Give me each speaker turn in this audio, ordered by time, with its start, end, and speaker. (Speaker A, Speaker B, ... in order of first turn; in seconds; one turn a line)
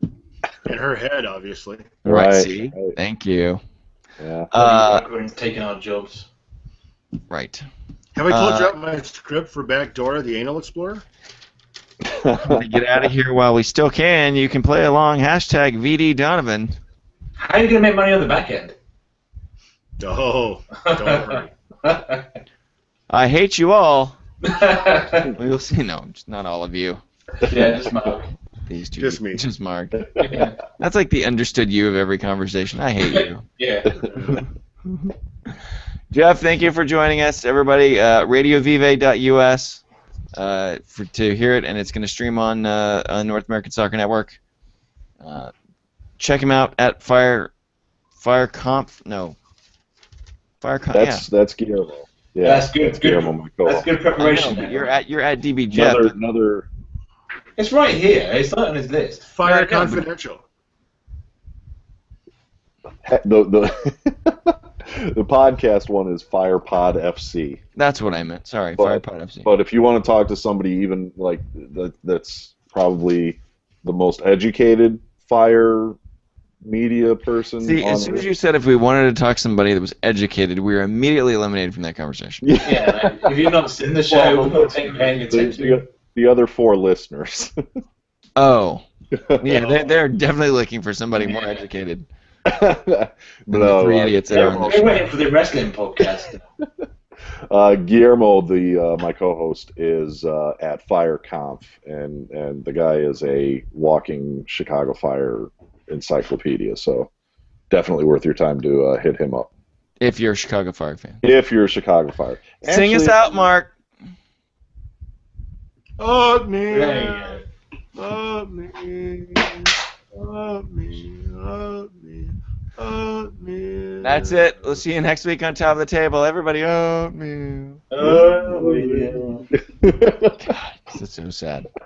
Speaker A: 0.6-1.9
Speaker B: 2.0-3.0
Speaker C: 2.0-3.6
Speaker B: 4.2-4.5
Speaker C: 4.5-5.0
Speaker D: 4.5-6.3
Speaker C: 7.3-7.6
Speaker A: 8.1-11.0
Speaker C: 8.3-8.7
Speaker B: 12.0-13.1
Speaker C: 12.4-16.7
Speaker D: 17.4-18.7
Speaker A: 20.0-21.5
Speaker D: 20.8-22.2
Speaker C: 23.1-24.2
Speaker D: 24.4-25.3
Speaker C: 25.3-27.0
Speaker D: 27.4-28.3
Speaker C: 28.7-30.1
Speaker A: 29.0-29.4
Speaker D: 30.2-30.6
Speaker C: 30.8-33.4
Speaker D: 33.1-34.1
Speaker B: 34.0-34.3
Speaker C: 36.1-39.8
Speaker C: 40.3-44.4
Speaker C: 45.2-45.5
Speaker C: 46.2-47.5
Speaker C: 48.2-49.4
Speaker C: 50.6-51.3
Speaker B: 50.9-53.9
Speaker D: 52.4-54.9
Speaker C: 54.2-56.1
Speaker B: 55.7-56.7
Speaker D: 57.6-60.0
Speaker A: 59.3-60.4
Speaker B: 63.0-67.6
Speaker C: 67.8-69.5
Speaker B: 68.8-76.0
Speaker B: 76.6-78.3
Speaker C: 77.6-82.5
Speaker B: 82.4-83.4
Speaker D: 82.6-85.8
Speaker B: 84.1-84.8
Speaker B: 85.3-87.5
Speaker C: 88.3-88.8
Speaker B: 89.2-89.7
Speaker C: 89.4-92.1
Speaker D: 91.3-91.6
Speaker B: 92.4-95.1
Speaker C: 93.5-95.0
Speaker D: 94.3-96.4
Speaker B: 97.5-107.1
Speaker B: 107.7-109.5
Speaker C: 110.0-111.2
Speaker B: 111.2-113.5
Speaker C: 112.6-113.7
Speaker A: 116.0-117.4
Speaker D: 116.7-117.4
Speaker A: 117.9-124.6
Speaker C: 124.0-127.8
Speaker D: 127.9-129.5
Speaker B: 128.0-129.1
Speaker B: 129.7-130.4
Speaker C: 130.3-131.7